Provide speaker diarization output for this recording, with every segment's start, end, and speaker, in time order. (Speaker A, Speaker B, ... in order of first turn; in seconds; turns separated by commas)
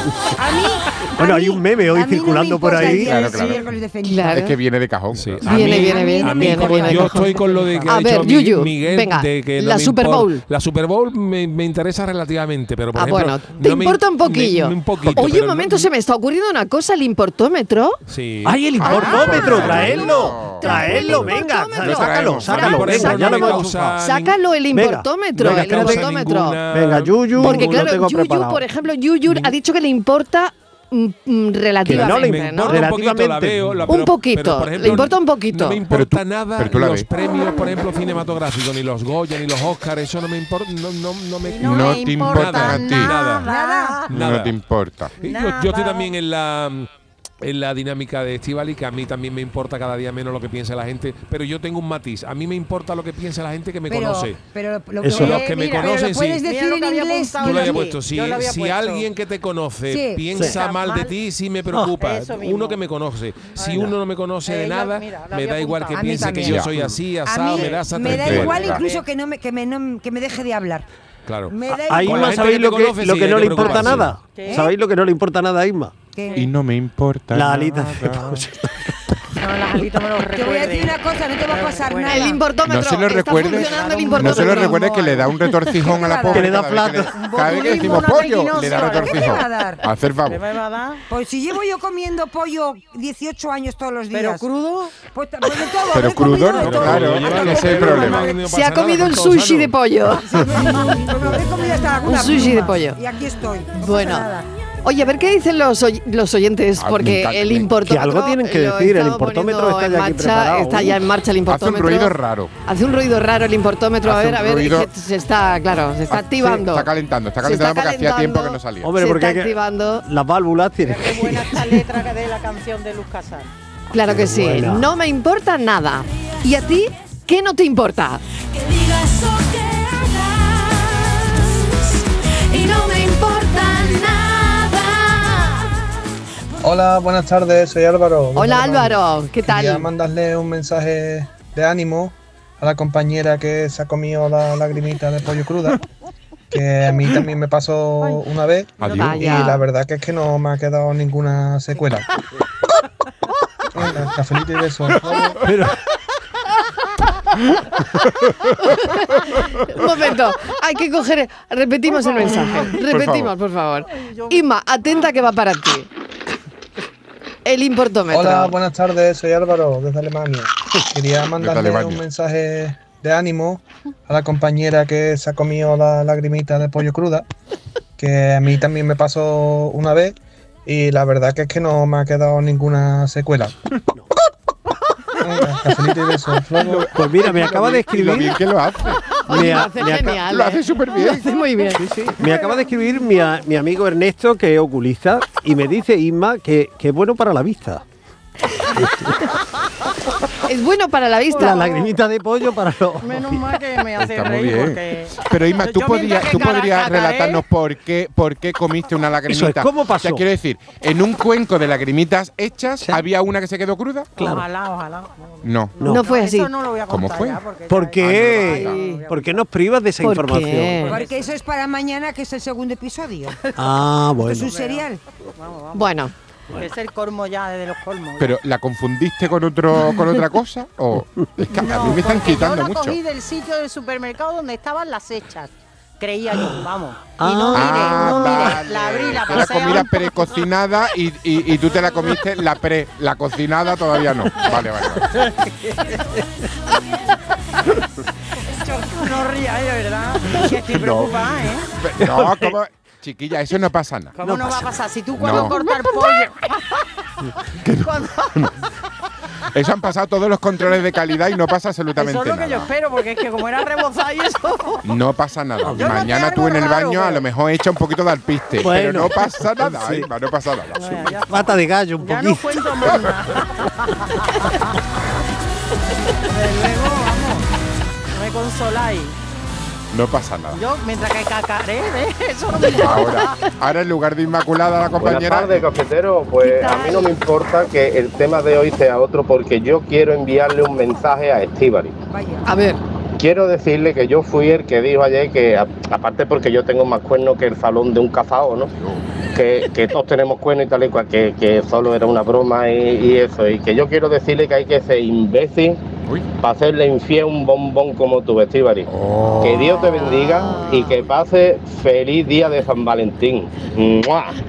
Speaker A: 0.3-4.5, Speaker B: 1.2-3.2, Speaker C: 2.9-3.7, Speaker D: 3.3-3.6, Speaker E: 4.0-4.5, Speaker C: 4.3-5.8, Speaker F: 5.1-15.9, Speaker E: 5.4-10.4, Speaker A: 5.5-7.9, Speaker E: 12.9-18.0, Speaker C: 15.0-15.4, Speaker F: 18.1-20.1, Speaker B: 18.4-24.0, Speaker E: 18.8-26.6, Speaker C: 18.9-21.2, Speaker C: 21.8-23.1, Speaker F: 22.5-24.4, Speaker B: 24.7-28.6, Speaker F: 25.4-27.9, Speaker E: 27.4-32.9, Speaker B: 29.3-29.5, Speaker B: 31.8-33.9, Speaker F: 31.9-43.5, Speaker E: 33.9-35.8, Speaker C: 35.9-37.1, Speaker D: 41.4-44.1, Speaker C: 41.6-43.1, Speaker A: 43.5-44.0, Speaker F: 44.1-44.6, Speaker C: 44.1-45.1, Speaker F: 45.2-46.9, Speaker D: 45.2-46.1, Speaker F: 47.4-54.4, Speaker A: 53.9-57.9, Speaker B: 55.0-55.4, Speaker F: 55.1-56.4, Speaker D: 55.5-59.1, Speaker F: 57.4-68.8, Speaker A: 59.9-60.5, Speaker D: 60.4-61.1, Speaker D: 62.0-62.8, Speaker D: 63.5-63.9, Speaker D: 64.5-66.6, Speaker A: 65.9-66.6, Speaker C: 66.4-67.0, Speaker A: 67.2-70.9, Speaker C: 68.0-68.8, Speaker D: 68.4-69.0, Speaker F: 71.3-74.2, Speaker A: 71.5-72.7, Speaker B: 71.7-75.9, Speaker A: 73.6-74.7, Speaker D: 74.3-74.7, Speaker A: 76.2-76.5, Speaker C: 76.3-78.4, Speaker B: 77.3-79.0, Speaker D: 79.4-82.4, Speaker A: 80.3-82.4, Speaker E: 82.1-84.8, Speaker C: 82.7-90.4, Speaker D: 83.3-85.5, Speaker A: 85.7-86.6, Speaker B: 86.3-87.2, Speaker D: 87.1-89.4, Speaker A: 87.5-89.8, Speaker D: 90.2-91.0, Speaker A: 91.1-94.5, Speaker D: 94.1-94.9, Speaker A: 95.1-97.5, Speaker C: 95.9-98.3, Speaker F: 96.6-99.8, Speaker D: 97.1-98.4, Speaker E: 98.4-100.3, Speaker A: 100.3-104.5, Speaker E: 102.0-103.0, Speaker E: 103.8-104.3, Speaker E: 104.8-112.2, Speaker C: 106.8-107.8, Speaker B: 107.8-111.0, Speaker C: 111.5-112.5, Speaker E: 112.7-116.9, Speaker C: 114.0-114.9, Speaker C: 116.1-118.9, Speaker E: 117.4-120.0, Speaker B: 118.8-121.8, Speaker D: 120.8-123.5, Speaker E: 123.9-128.2, Speaker B: 124.0-124.9, Speaker G: 128.6-131.2, Speaker G: 132.5-135.0, Speaker H: 136.6-145.8, Speaker E: 138.4-139.9, Speaker H: 146.5-152.1, Speaker C: 148.8-149.5, Speaker E: 148.8-149.6, Speaker H: 153.7-155.4, Speaker B: 155.4-155.8, Speaker E: 158.6-165.9, Speaker D: 162.0-162.8, Speaker C: 162.8-163.3, Speaker D: 163.9-164.4, Speaker E: 167.4-168.6, Speaker H: 168.1-177.3, Speaker C: 171.4-172.0, Speaker H: 178.0-183.6, Speaker H: 185.2-186.9, Speaker C: 186.6-189.2, Speaker B: 186.9-188.4, Speaker E: 189.3-191.8, Speaker B: 189.3-190.3, Speaker C: 189.9-191.2, Speaker B: 191.8-197.8, Speaker B: 198.8-199.1, Speaker E: 200.4-201.8, Speaker B: 201.3-203.5, Speaker D: 201.5-201.8, Speaker D: 203.0-207.5, Speaker C: 204.0-214.1, Speaker B: 209.3-210.3, Speaker B: 214.2-214.4, Speaker D: 214.2-219.4, Speaker C: 215.4-215.8, Speaker B: 215.8-216.1, Speaker E: 215.8-216.5, Speaker C: 216.9-217.4, Speaker B: 217.7-221.0, Speaker C: 218.0-218.7, Speaker E: 220.0-221.0, Speaker D: 220.8-221.3, Speaker A: 220.9-223.6, Speaker B: 223.6-224.6, Speaker A: 224.2-225.0, Speaker D: 224.5-224.9, Speaker D: 225.4-226.0, Speaker E: 225.7-226.1, Speaker D: 226.5-228.3, Speaker C: 228.2-233.0, Speaker D: 231.5-240.2, Speaker B: 237.2-238.5, Speaker C: 237.5-245.1, Speaker D: 248.6-251.7, Speaker C: 250.7-254.6, Speaker D: 254.2-256.7, Speaker C: 255.1-255.6, Speaker C: 257.6-258.5, Speaker D: 257.8-258.4, Speaker C: 259.5-262.7, Speaker D: 261.9-264.8, Speaker C: 264.8-271.1, Speaker B: 265.6-266.0, Speaker D: 265.7-267.2, Speaker B: 268.6-270.1, Speaker D: 270.8-274.7, Speaker B: 271.3-272.9, Speaker D: 276.2-277.5, Speaker D: 278.1-279.2, Speaker C: 279.9-280.6, Speaker D: 280.5-283.4, Speaker C: 282.7-285.6, Speaker I: 285.0-292.0, Speaker E: 286.4-287.1, Speaker A: 292.1-292.5, Speaker E: 292.5-292.8, Speaker I: 293.2-298.7, Speaker C: 298.8-299.0, Speaker I: 299.4-305.8, Speaker I: 306.4-308.9, Speaker C: 308.9-309.9, Speaker E: 309.2-311.0, Speaker I: 309.4-314.3